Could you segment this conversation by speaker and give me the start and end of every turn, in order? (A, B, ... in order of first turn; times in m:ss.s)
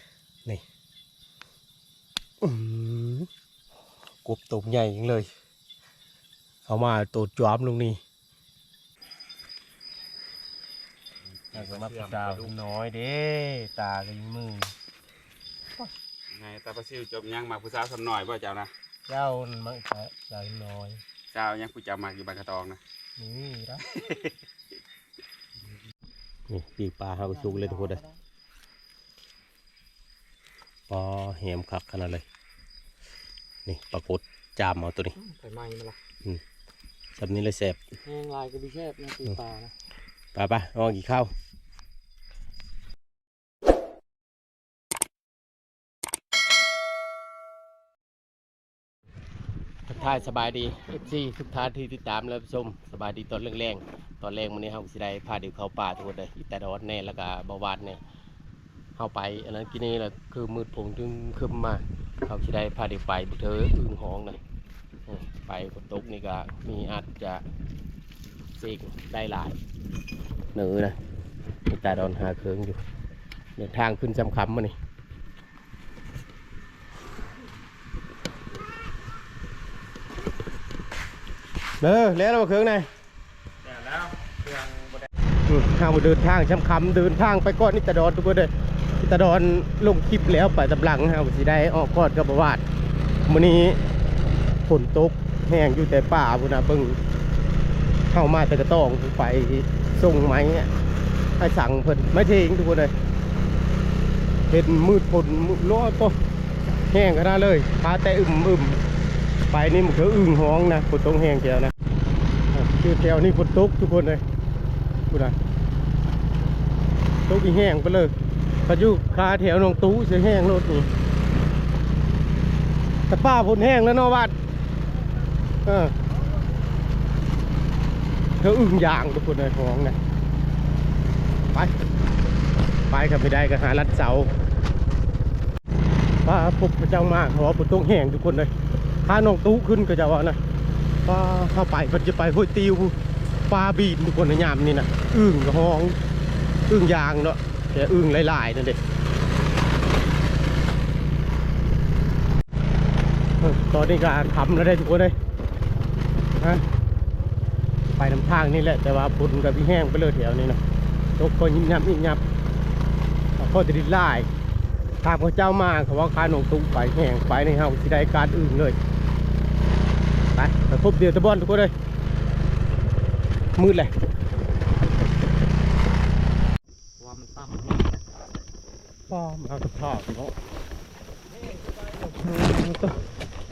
0:02.4-0:03.3 A
0:04.2-0:05.3 A
0:06.7-0:08.0 A
0:11.5-0:12.6 B
0:11.5-0:14.7 A
0:16.3-0:18.7 B
0:19.1-0:21.0 A
0:21.3-0:22.8 B
0:23.2-0:23.8 A
0:23.9-0:24.4 B
0:26.5-0:28.0 A
0:27.2-0:28.2 C
0:30.9-0:32.2 A
0:33.7-0:35.2 A
0:35.2-0:36.0 C
0:37.2-0:37.8 A
0:38.0-0:39.7 C
0:40.3-0:41.3 A
0:49.9-0:58.0 A
0:59.0-1:04.4 A
1:05.1-1:07.4 A
1:08.6-1:09.6 A
1:10.5-1:11.0 A
1:11.7-1:12.8 A
1:13.6-1:14.8 A
1:21.8-1:22.9 A
1:23.6-1:24.8 B
1:25.5-1:32.6 A
1:33.3-1:33.8 A
1:34.7-1:37.0 A
1:38.1-1:40.7 A
1:41.4-1:42.9 A
1:44.5-1:46.2 A
1:46.9-1:48.8 A
1:49.5-1:51.7 A
1:52.5-1:54.2 A
1:55.1-1:55.4 A
1:57.3-1:58.1 A
1:58.7-2:00.9 A
2:03.1-2:04.4 A
2:05.6-2:06.0 A
2:08.4-2:10.0 A
2:12.9-2:14.3 A
2:16.2-2:18.5 A
2:19.0-2:20.4 A
2:21.0-2:23.0 A
2:23.5-2:26.0 A
2:26.7-2:28.8 A
2:33.4-2:35.2 A
2:36.4-2:36.6 A
2:38.0-2:40.6 A
2:41.2-2:42.2 A
2:43.4-2:44.3 A
2:45.0-2:48.8 A
2:50.4-2:51.7 A
2:53.6-2:53.9 A
2:57.0-2:57.9 C
2:59.1-3:00.4 A
3:01.5-3:03.0 A